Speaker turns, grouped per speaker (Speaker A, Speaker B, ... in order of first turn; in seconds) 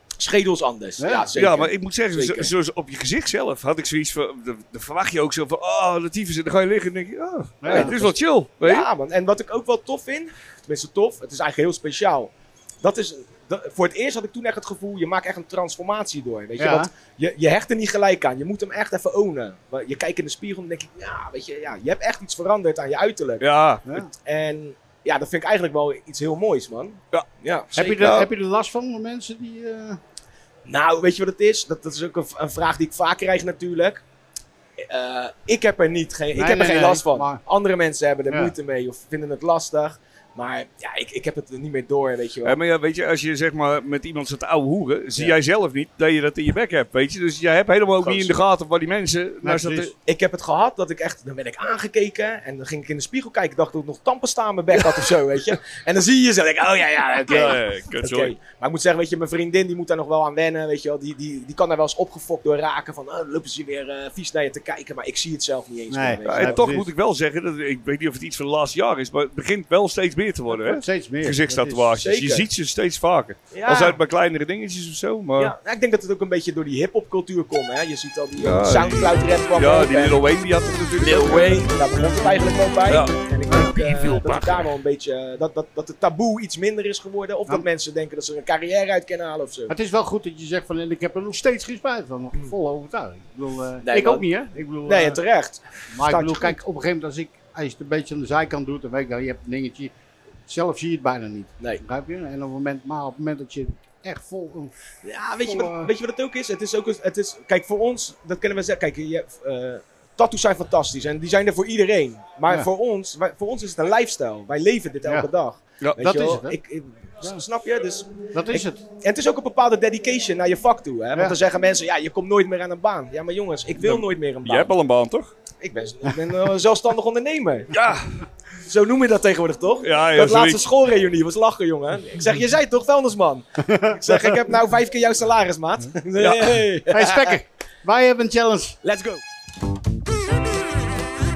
Speaker A: 0.2-2.5, 7.7-23.4, 24.2-28.2, 30.7-34.0, 34.8-42.6, 48.0-48.4, 50.1-66.7, 72.0-72.5, 73.5-74.0, 75.4-80.2, 81.0-89.7, 93.8-94.3, 94.8-96.6, 105.0-124.7, 125.6-127.7, 128.7-137.4, 138.8-139.2
Speaker B: 1.0-1.3, 7.6-8.0, 16.6-16.9, 27.8-30.0, 36.3-37.4, 49.4-49.9, 65.9-66.9, 70.5-71.9, 83.5-83.8, 89.7-95.2, 95.9-99.9, 100.5-104.7, 105.4-105.9, 116.0-116.6, 118.3-118.8, 133.7-134.1, 136.9-138.8
Speaker C: 1.4-8.9, 23.4-23.8, 28.0-28.3, 42.4-49.9, 57.3-58.4, 66.2-75.5, 78.4-81.7, 82.9-83.1, 83.8-84.6, 123.8-125.3, 127.7-128.1, 129.8-130.6, 136.2-136.7